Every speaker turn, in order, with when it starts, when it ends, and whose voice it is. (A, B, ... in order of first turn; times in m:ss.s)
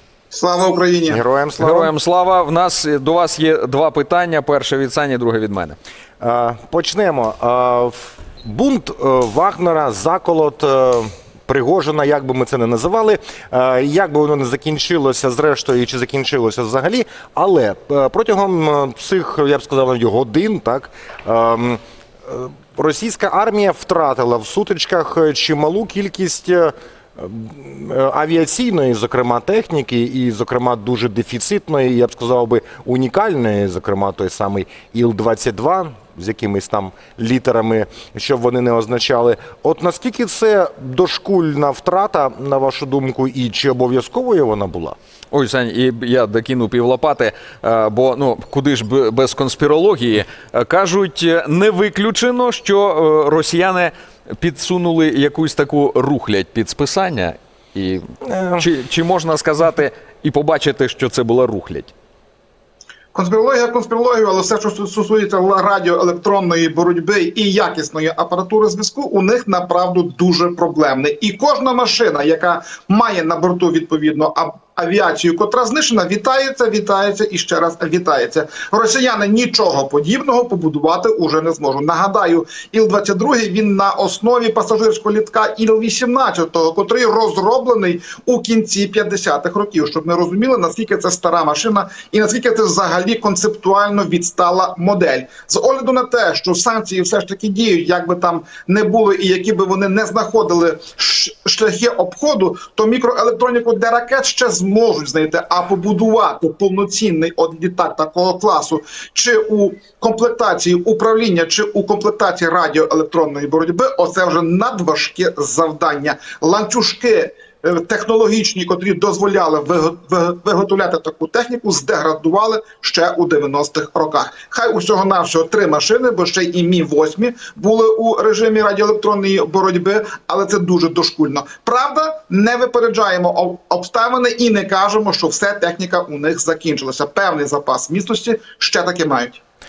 0:00.3-0:01.2 A
0:01.1-0:01.9 B
0:01.6-0:05.8 C
0:06.2-0:45.0 B
0:45.3-0:58.0 C
0:58.3-0:58.6 B
0:58.6-1:01.9 C
1:03.1-2:19.4 A